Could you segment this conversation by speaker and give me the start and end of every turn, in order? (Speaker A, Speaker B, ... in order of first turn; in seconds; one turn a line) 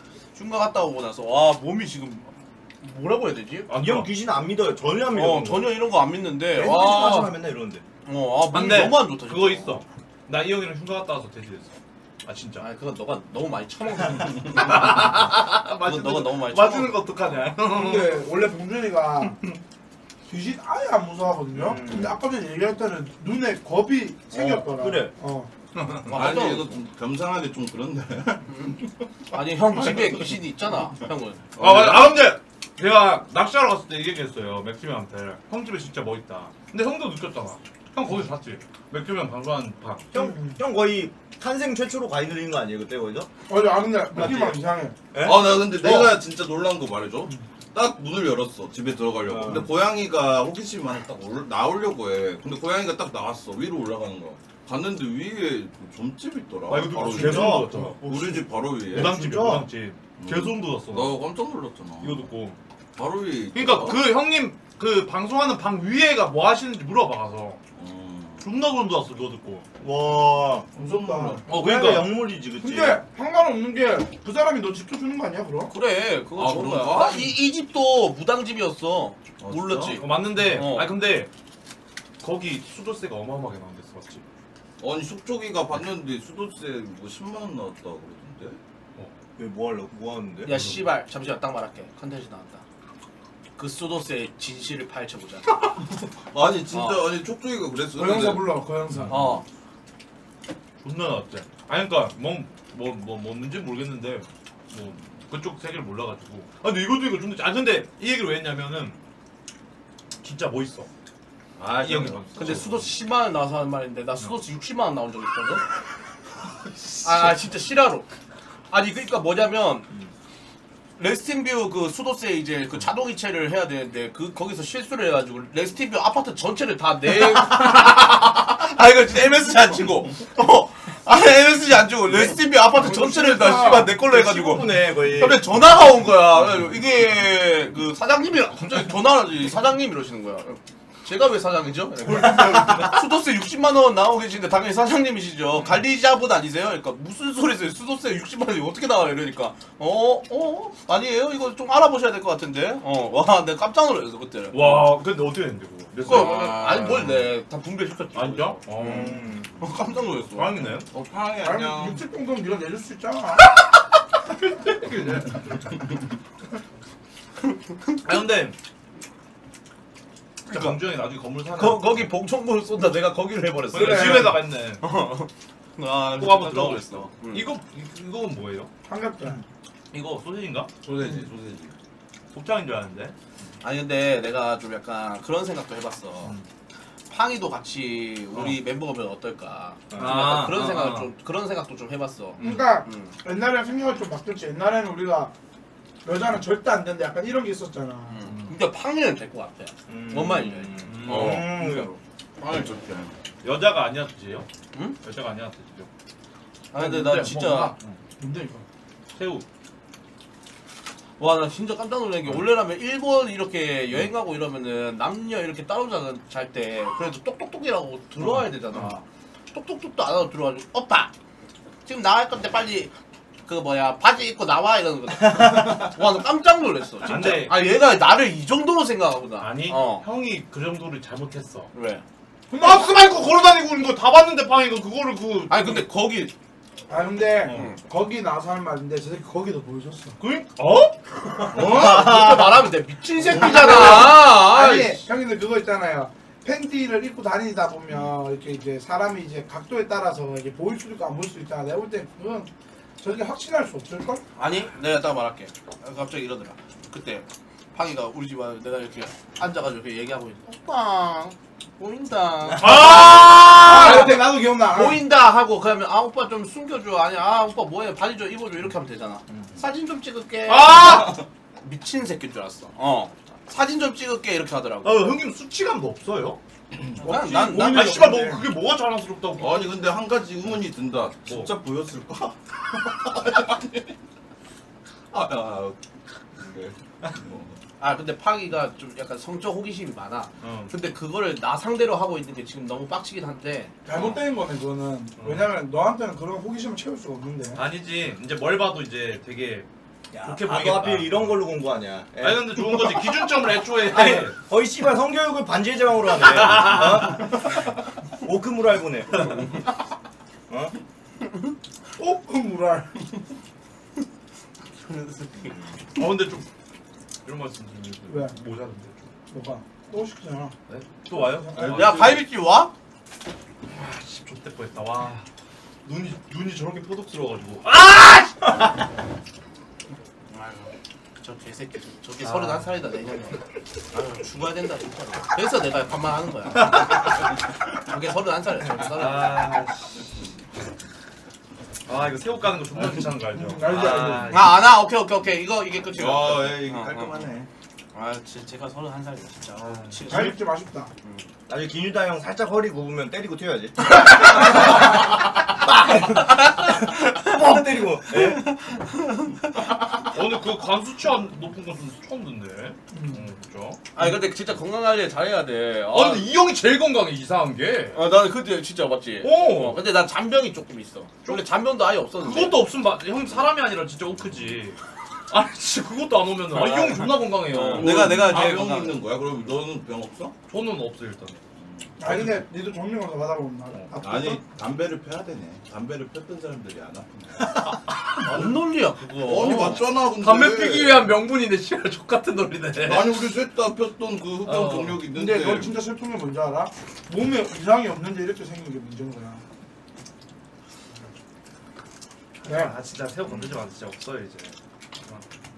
Speaker A: 0.3-2.3
Speaker A: 2.8-3.7
Speaker B: 3.7-4.1
Speaker C: 3.7-5.8
Speaker A: 5.1-7.4
Speaker C: 6.5-7.8
Speaker A: 8.1-9.8
Speaker B: 8.5-11.7
Speaker B: 12.2-12.7
Speaker A: 12.6-17.1
Speaker B: 14.6-18.2
Speaker D: 17.6-19.4
Speaker B: 19.3-19.6
Speaker D: 20.3-25.5
Speaker C: 21.5-22.2
Speaker C: 24.3-25.1
Speaker A: 26.0-26.8
Speaker E: 26.1-28.5
Speaker A: 28.5-31.4
Speaker E: 29.9-30.4
Speaker E: 31.6-32.2
Speaker B: 31.6-40.1
Speaker C: 40.1-43.3
Speaker D: 40.1-40.6
Speaker D: 43.5-45.1
Speaker C: 44.1-44.6
Speaker C: 45.1-46.1
Speaker E: 45.2-59.2
Speaker C: 49.3-49.7
Speaker B: 56.7-61.2
Speaker C: 56.9-57.9
Speaker D: 57.4-57.9
Speaker C: 58.9-59.7
Speaker E: 60.2-62.3
Speaker B: 62.0-62.6
Speaker E: 63.0-64.1
Speaker B: 63.5-67.6
Speaker E: 67.8-68.5
Speaker B: 68.4-69.7
Speaker C: 69.8-70.7
Speaker E: 70.7-71.5
Speaker D: 70.8-75.7
Speaker C: 71.5-73.0
Speaker B: 71.5-71.8
Speaker A: 71.6-72.0
Speaker A: 75.7-80.9
Speaker E: 76.4-77.3
Speaker E: 79.4-80.0
Speaker B: 80.0-81.3
Speaker B: 82.2-84.2
Speaker E: 84.8-88.6
Speaker C: 89.4-90.6
Speaker A: 90.4-92.6
Speaker B: 90.5-90.8
Speaker A: 93.6-95.6
Speaker E: 96.3-98.5
Speaker A: 96.7-97.0
Speaker D: 97.9-99.4
Speaker B: 99.0-99.4
Speaker A: 99.1-99.4
Speaker B: 100.8-109.0
Speaker B: 110.2-110.9
Speaker E: 111.6-112.7
Speaker B: 111.7-112.9
Speaker A: 112.3-115.6
Speaker A: 117.0-118.1
Speaker A: 118.7-119.9
Speaker A: 121.0-155.0
Speaker D: 132.8-134.0
Speaker C: 134.0-135.4
Speaker B: 154.5-157.0
Speaker E: 156.0-157.2
Speaker A: 156.1-160.7
Speaker B: 158.1-159.4
Speaker C: 158.8-159.4
Speaker B: 160.3-160.9
Speaker E: 160.9-162.0
Speaker D: 161.4-163.5
Speaker B: 164.4-165.8
Speaker B: 168.0-168.6
Speaker B: 170.5-172.1
Speaker A: 170.5-170.8
Speaker A: 171.5-177.5
Speaker B: 173.7-174.8
Speaker D: 173.7-174.4
Speaker B: 176.2-178.7
Speaker D: 178.9-179.4
Speaker B: 179.9-180.7
Speaker E: 180.8-181.7
Speaker B: 182.3-183.1
Speaker A: 183.6-186.4
Speaker A: 187.1-193.2
Speaker B: 189.9-191.1
Speaker B: 192.4-192.7
Speaker D: 192.4-195.3
Speaker D: 196.0-198.2
Speaker A: 198.1-202.0
Speaker B: 198.2-198.5
Speaker C: 199.9-201.9
Speaker E: 200.7-201.7
Speaker B: 200.8-201.6
Speaker E: 202.4-203.2
Speaker B: 203.4-204.5
Speaker B: 205.0-205.9
Speaker A: 206.7-207.7
Speaker B: 206.7-208.0
Speaker D: 208.2-208.6
Speaker B: 209.2-209.4
Speaker A: 211.2-221.1
Speaker B: 218.2-218.9
Speaker A: 221.8-222.9
Speaker A: 223.5-230.1
Speaker B: 227.0-227.7
Speaker B: 229.4-231.7
Speaker A: 231.7-232.0
Speaker D: 232.5-232.9
Speaker B: 232.5-235.8
Speaker A: 235.5-236.3
Speaker D: 236.9-240.2
Speaker A: 237.5-237.8
Speaker B: 240.2-241.0
Speaker A: 241.3-245.0
Speaker E: 241.5-242.2
Speaker C: 241.6-242.6
Speaker D: 243.2-252.5
Speaker D: 253.0-254.2
Speaker A: 254.4-275.1
Speaker B: 262.6-264.2
Speaker D: 262.9-265.0
Speaker B: 270.5-271.2
Speaker B: 274.8-276.4
Speaker A: 277.0-278.0
Speaker D: 277.0-278.5
Speaker B: 277.1-279.7
Speaker E: 279.4-283.9
Speaker E: 285.1-285.8
Speaker E: 286.4-287.6
Speaker A: 287.8-293.7
Speaker B: 290.4-290.7
Speaker D: 293.9-297.6
Speaker E: 293.9-294.2
Speaker B: 295.2-295.5
Speaker B: 297.6-299.7
Speaker C: 300.1-303.0
Speaker B: 300.2-301.4
Speaker B: 302.2-304.4
Speaker C: 303.9-307.6
Speaker B: 306.3-307.2
Speaker C: 308.2-309.7
Speaker C: 310.5-310.8
Speaker D: 312.0-313.0
Speaker A: 314.8-315.6
Speaker B: 315.9-316.5
Speaker B: 317.2-319.1
Speaker D: 318.1-318.3
Speaker D: 319.3-320.5
Speaker B: 320.7-322.2
Speaker D: 321.1-322.0
Speaker A: 321.6-322.7
Speaker B: 323.7-325.2
Speaker B: 325.9-328.6
Speaker A: 330.3-337.1
Speaker B: 332.2-332.7
Speaker A: 337.7-339.5
Speaker B: 338.9-340.0
Speaker B: 341.9-344.6
Speaker D: 343.3-344.4
Speaker A: 344.3-347.3
Speaker E: 345.9-347.5
Speaker A: 347.9-350.5
Speaker B: 349.6-350.2
Speaker D: 350.1-350.9
Speaker A: 351.0-351.3
Speaker C: 351.5-354.6
Speaker A: 354.1-354.6
Speaker D: 357.2-358.4
Speaker C: 357.5-358.4
Speaker A: 358.1-359.3
Speaker B: 359.9-364.2
Speaker D: 362.9-363.2
Speaker A: 363.9-366.3
Speaker B: 365.9-368.0
Speaker A: 367.9-372.6
Speaker B: 369.2-369.8
Speaker B: 372.2-378.8
Speaker A: 376.5-379.0
Speaker E: 377.6-380.4
Speaker B: 380.5-381.4
Speaker E: 381.6-381.9
Speaker D: 382.0-384.4
Speaker B: 382.1-382.4
Speaker E: 384.0-387.6
Speaker A: 388.2-393.1
Speaker E: 389.2-391.1
Speaker E: 392.8-395.8
Speaker B: 394.5-395.0
Speaker D: 395.1-399.4
Speaker B: 402.4-405.2
Speaker D: 402.5-402.7